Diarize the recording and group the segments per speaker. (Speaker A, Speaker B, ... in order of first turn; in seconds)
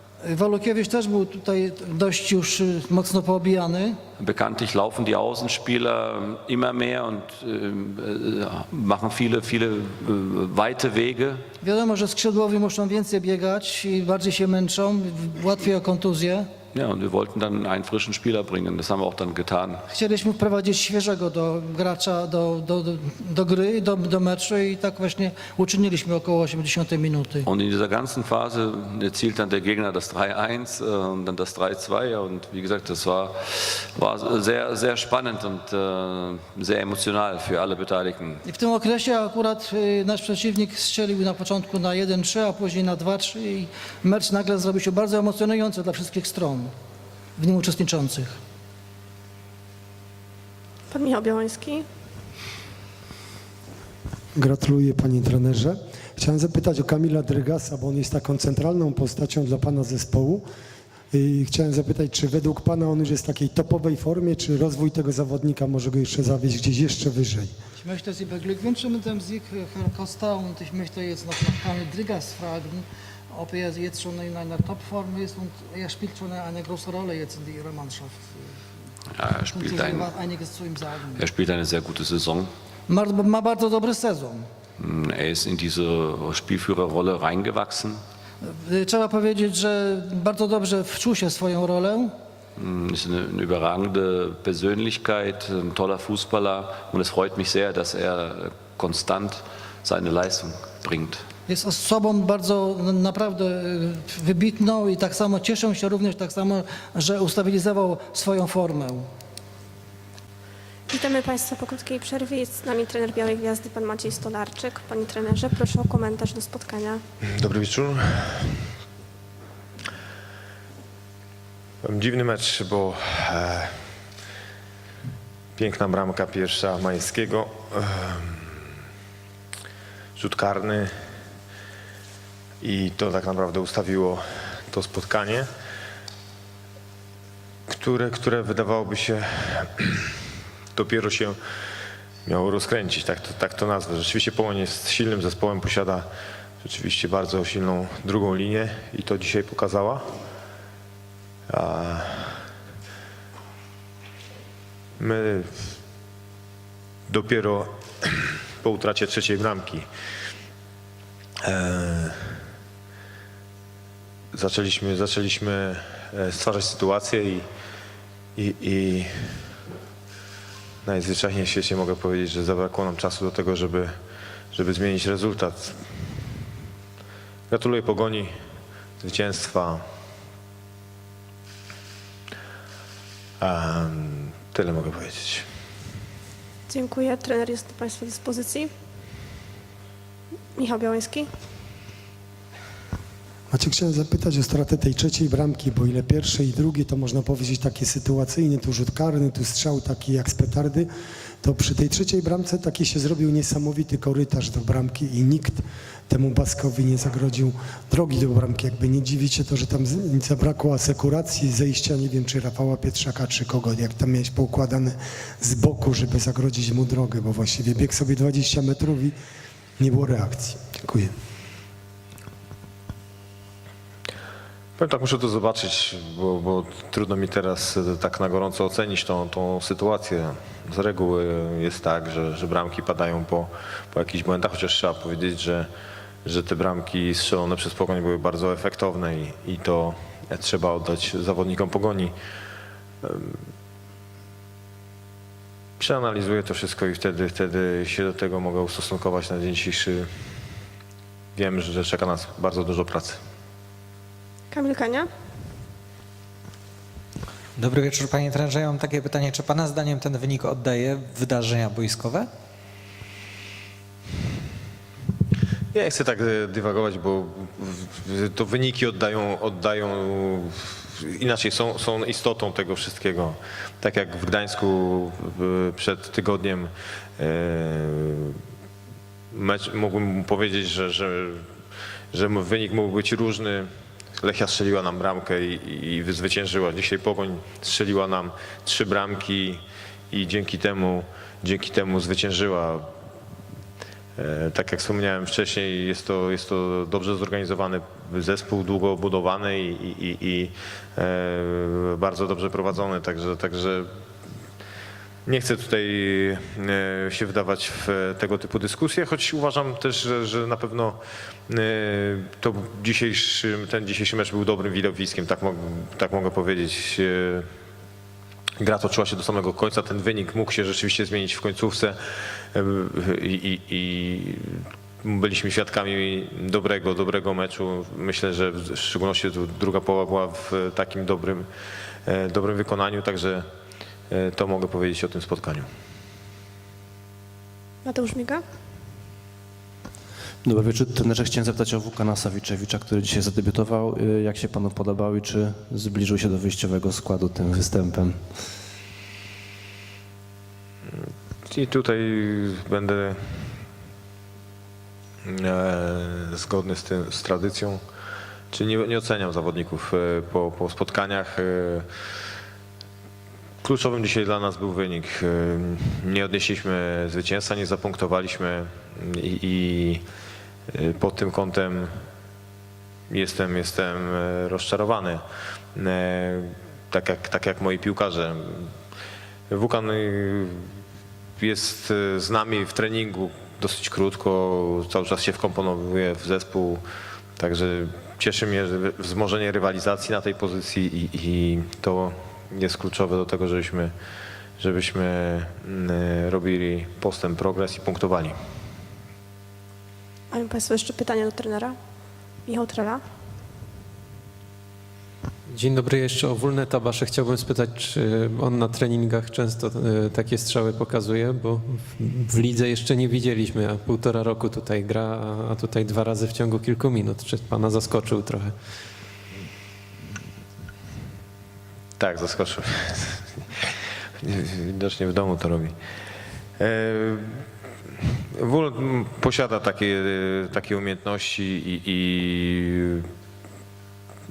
Speaker A: 0.2-4.0, 11.6-16.5, 19.9-27.5, 38.5-46.7, 47.4-48.4, 67.8-78.4, 79.5-81.2, 82.9-84.5, 88.4-92.1, 101.5-109.1
Speaker B: 4.2-11.4, 16.7-19.8, 27.4-38.4, 79.2-80.1, 81.2-82.5, 84.8-88.0, 92.6-101.2
Speaker C: 50.9-51.9, 110.9-117.0, 186.7-188.7, 190.6-191.3, 254.5-255.1, 337.8-338.4, 400.3-401.8, 402.5-403.0
Speaker D: 54.4-60.4, 61.1-67.5, 193.5-200.9, 201.4-219.1, 219.8-221.1
Speaker E: 117.4-118.6, 121.8-123.9, 125.6-128.7, 130.2-130.9, 132.6-135.5, 137.7-140.2, 140.7-141.4, 142.3-146.1, 146.6-150.1, 151.5-152.5, 155.0-155.7, 157.1-159.9, 161.4-162.5, 164.3-167.5, 168.4-169.5, 170.8-173.9, 174.5-175.8, 177.5-178.3, 179.0-179.8, 183.4-185.5, 224.8-235.7, 236.2-242.1, 243.0-243.4, 245.8-250.1, 251.3-253.2, 265.7-278.4, 279.3-281.5, 282.1-292.9, 294.2-303.9, 305.3-317.5, 318.6-331.5, 332.1-333.5, 334.1-335.7, 351.0-353.6, 355.3-357.8, 358.5-361.9, 363.6-370.0, 370.7-372.0, 373.1-375.2, 375.8-378.7, 379.5-380.7, 381.4-386.8, 387.4-393.9, 394.6-398.4, 422.0-423.7, 424.2-425.8, 426.6-427.4, 428.3-433.1
Speaker F: 257.6-262.3
Speaker G: 340.4-348.5
Speaker H: 405.5-418.5